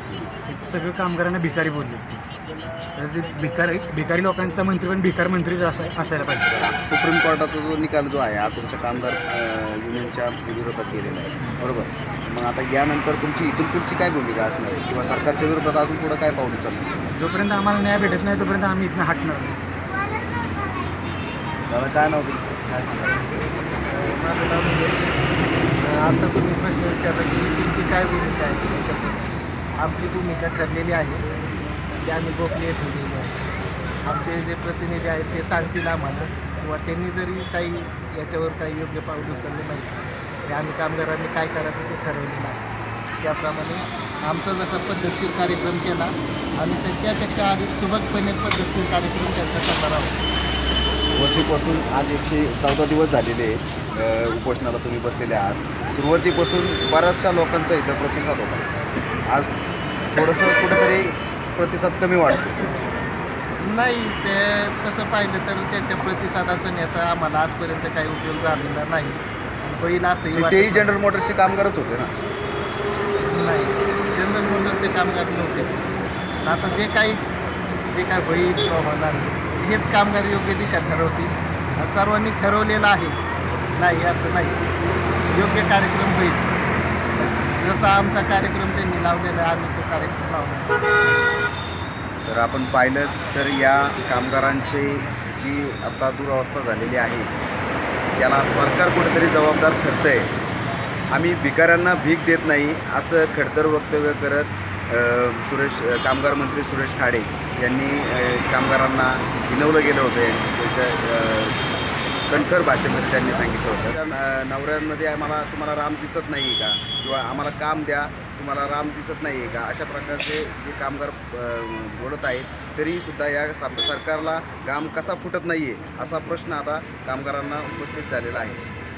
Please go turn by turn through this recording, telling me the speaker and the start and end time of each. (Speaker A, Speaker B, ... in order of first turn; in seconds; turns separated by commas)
Speaker A: 0.4-2.2, Speaker A: 3.0-6.5, Speaker B: 6.5-17.0, Speaker A: 17.2-19.6, Speaker B: 21.7-23.5, Speaker C: 23.6-25.1, Speaker C: 25.8-29.2, Speaker C: 29.8-31.2, Speaker C: 32.0-33.4, Speaker C: 34.0-39.9, Speaker C: 40.5-42.6, Speaker C: 43.2-50.2, Speaker B: 51.1-58.7, Speaker B: 60.1-62.6, Speaker C: 63.6-70.9, Speaker B: 70.3-72.2, Speaker C: 73.2-75.8, Speaker C: 76.4-77.2, Speaker C: 77.9-83.2, Speaker C: 83.8-84.6, Speaker C: 85.3-86.5, Speaker C: 87.2-90.8, Speaker B: 92.3-97.3, Speaker B: 98.2-100.3, Speaker B: 101.1-111.6, Speaker B: 112.3-128.6